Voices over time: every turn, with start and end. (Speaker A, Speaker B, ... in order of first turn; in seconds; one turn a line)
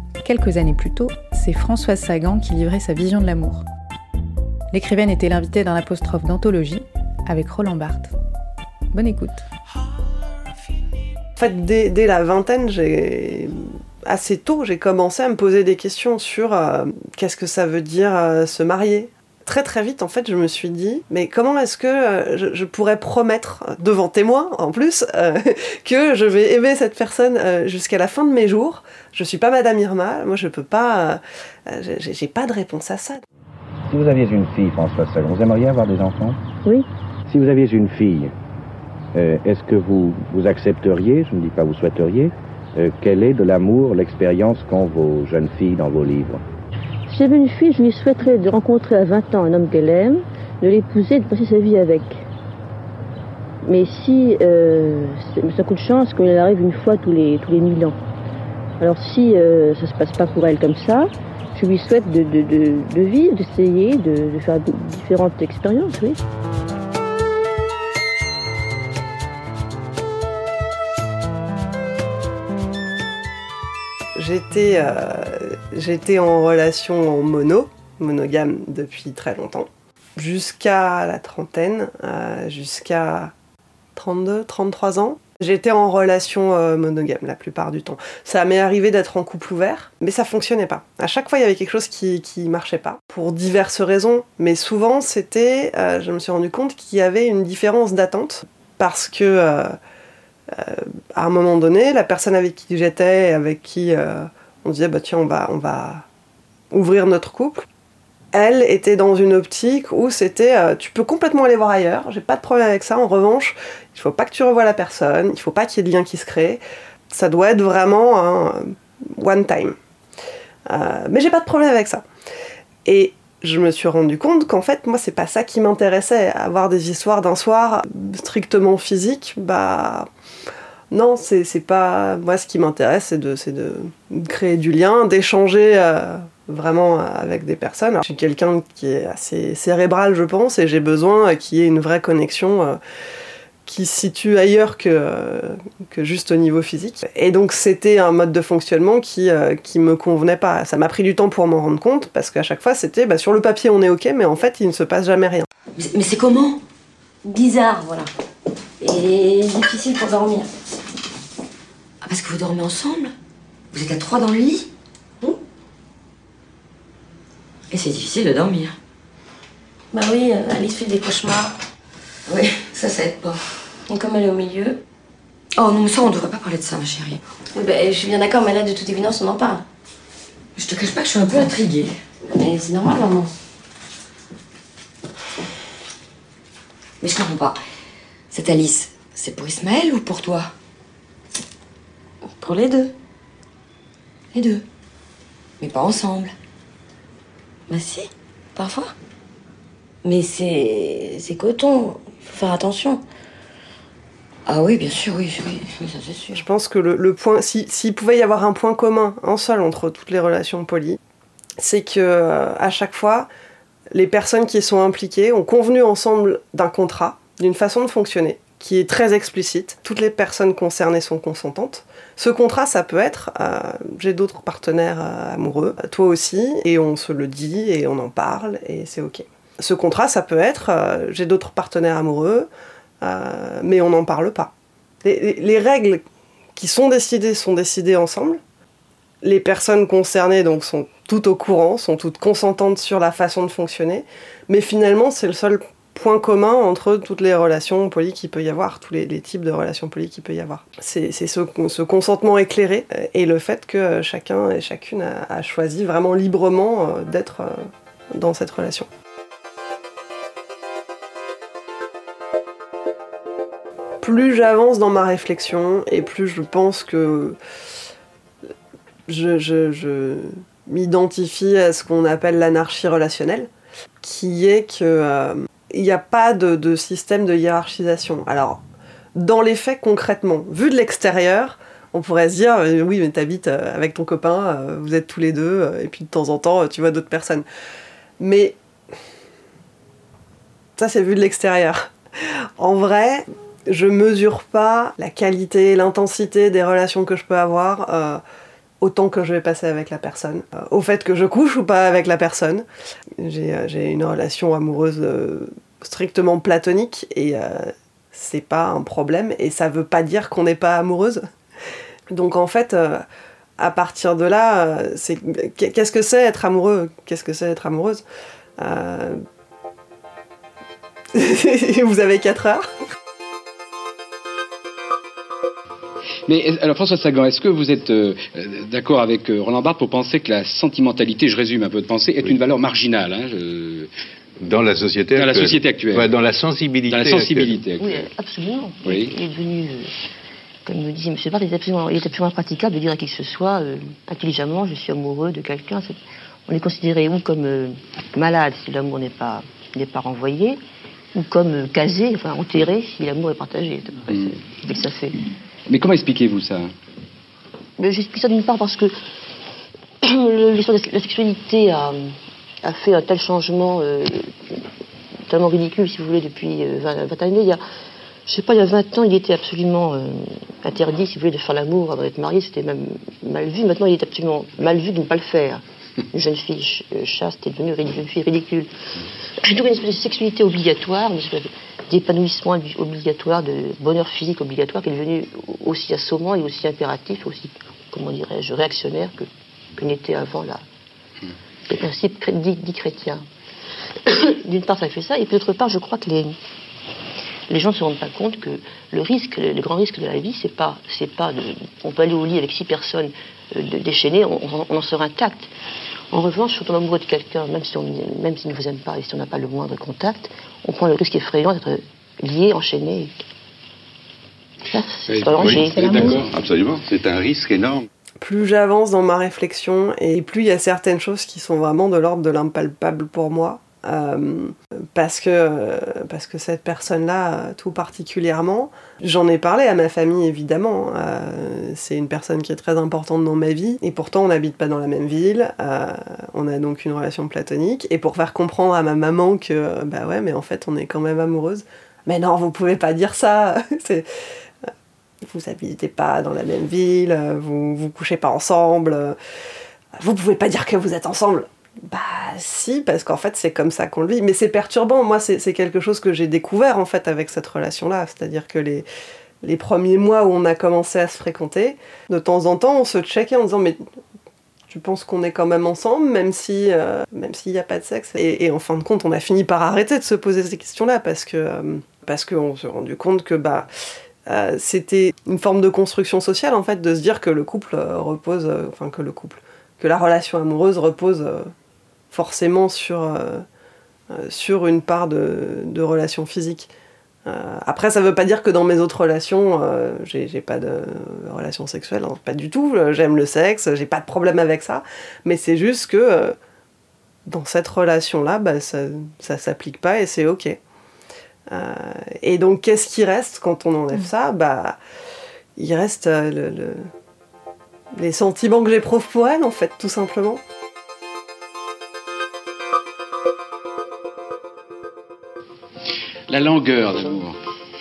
Speaker A: 0.2-3.6
Speaker A: 4.7-8.1
Speaker A: 8.9-9.4
Speaker B: 11.4-33.2
Speaker C: 33.9-36.4
Speaker C: 37.3-38.3
Speaker C: 39.1-46.4
Speaker D: 47.1-52.2
Speaker D: 53.6-58.0
Speaker D: 58.8-66.2
Speaker B: 74.2-83.3
Speaker B: 84.0-99.8
Speaker B: 100.5-106.0
Speaker B: 106.7-107.7
Speaker B: 108.3-119.8
Speaker B: 120.7-122.0
Speaker B: 122.8-130.1
Speaker B: 130.9-142.8
Speaker B: 143.7-155.5
Speaker E: 155.8-156.6
Speaker F: 157.2-158.1
Speaker F: 158.8-160.5
Speaker E: 162.0-163.1
Speaker E: 163.7-164.7
Speaker E: 167.7-168.8
Speaker F: 169.9-171.5
Speaker E: 172.3-173.5
Speaker F: 173.9-174.8
Speaker E: 175.5-177.2
Speaker F: 177.5-179.6
Speaker E: 180.5-182.0
Speaker F: 182.3-183.3
Speaker E: 187.0-187.6
Speaker E: 188.3-190.5
Speaker F: 192.4-192.9
Speaker E: 194.3-194.6
Speaker E: 195.6-196.3
Speaker E: 197.7-198.9
Speaker E: 200.0-203.0
Speaker E: 204.4-206.4
Speaker B: 206.3-211.0
Speaker B: 211.6-213.3
Speaker B: 213.9-232.5
Speaker B: 233.0-234.5
Speaker B: 235.0-236.0
Speaker B: 236.6-238.4
Speaker B: 239.2-258.9
Speaker B: 264.0-267.4
Speaker B: 269.1-273.5
Speaker B: 274.0-278.6
Speaker B: 279.1-287.4
Speaker B: 288.2-288.6
Speaker B: 290.8-298.2
Speaker B: 298.8-302.6
Speaker B: 303.2-311.3
Speaker B: 312.1-313.0
Speaker B: 313.6-318.0
Speaker B: 318.6-319.2
Speaker B: 321.1-322.7
Speaker G: 326.3-333.9
Speaker H: 334.4-337.6
Speaker G: 335.1-336.1
Speaker G: 336.9-338.1
Speaker D: 337.8-339.9
Speaker G: 338.8-339.1
Speaker D: 340.6-350.6
Speaker D: 351.1-355.2
Speaker G: 354.1-354.4
Speaker G: 355.7-356.7
Speaker D: 357.8-359.0
Speaker D: 360.0-364.6
Speaker D: 365.3-367.6
Speaker D: 368.3-378.7
Speaker D: 379.4-390.6
Speaker D: 391.7-393.2
Speaker D: 394.1-396.4
Speaker D: 397.5-405.5
Speaker D: 406.1-413.2
Speaker D: 414.7-416.2
Speaker G: 415.1-416.3
Speaker H: 415.4-417.9
Speaker B: 418.2-444.1
Speaker B: 445.2-449.2
Speaker B: 450.0-458.9
Speaker B: 459.4-463.8
Speaker B: 464.7-473.7
Speaker B: 474.3-481.5
Speaker B: 482.1-483.4
Speaker B: 484.1-486.7
Speaker B: 487.2-496.4
Speaker B: 497.3-500.6
Speaker B: 501.5-504.8
Speaker B: 505.6-506.9
Speaker B: 507.9-510.4
Speaker G: 516.3-517.4